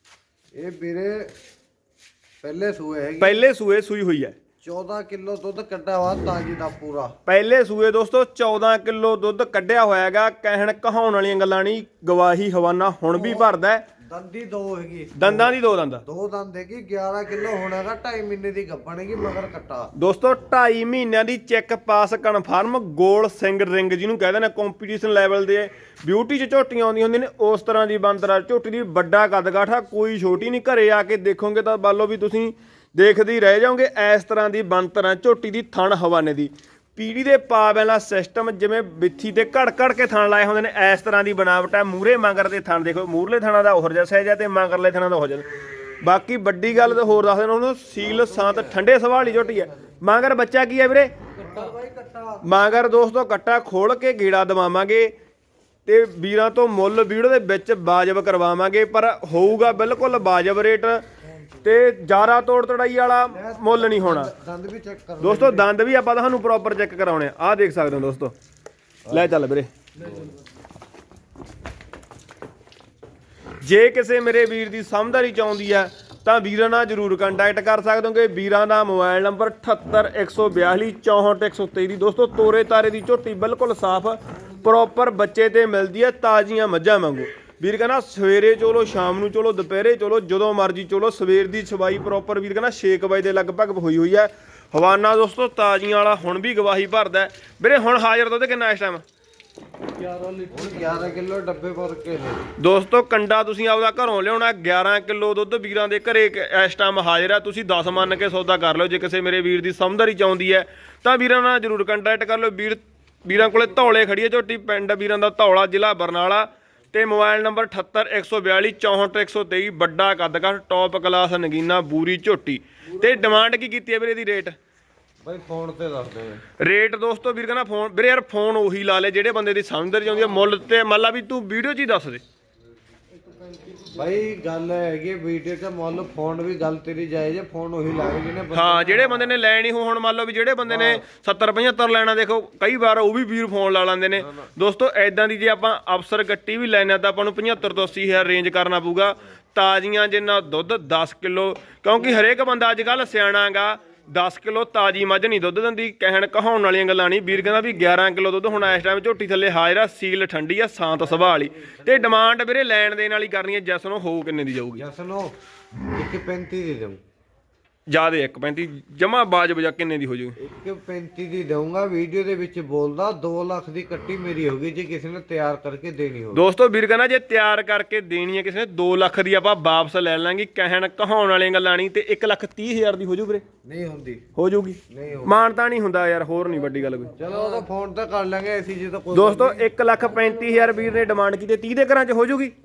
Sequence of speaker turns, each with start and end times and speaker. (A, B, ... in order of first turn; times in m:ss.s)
0:00.6-0:01.3 A
0:02.4-0:03.5 A
0:03.2-0:04.4 B
0:04.6-0:07.2 A
0:07.3-0:13.8 B
0:13.1-0:19.9 A
0:15.2-0:16.0 B
0:20.0-0:45.4 B
0:46.0-0:51.2 B
0:48.0-0:48.8 A
0:51.4-0:52.5 A
0:52.4-0:55.1 B
0:55.9-1:01.0 B
1:01.6-1:04.3 B
1:03.3-1:05.7 A
1:05.2-1:08.3 B
1:09.1-1:09.4 A
1:09.1-1:09.7 B
1:13.6-1:39.0 B
1:40.0-1:42.5 A
1:42.6-2:04.6 B
2:05.2-2:06.4 A
2:06.6-2:12.2 B
2:13.8-2:19.4 A
2:18.5-2:44.8 B
2:20.7-2:21.0 A
2:41.0-2:42.3 A
2:44.8-2:45.3 A
2:45.9-2:47.0 A
2:47.9-2:50.4 B
2:50.4-2:56.5 A
2:56.3-3:03.4 B
3:03.6-3:04.2 A
3:04.4-3:07.2 B
3:04.9-3:05.4 A
3:07.2-3:09.7 A
3:09.1-3:12.5 B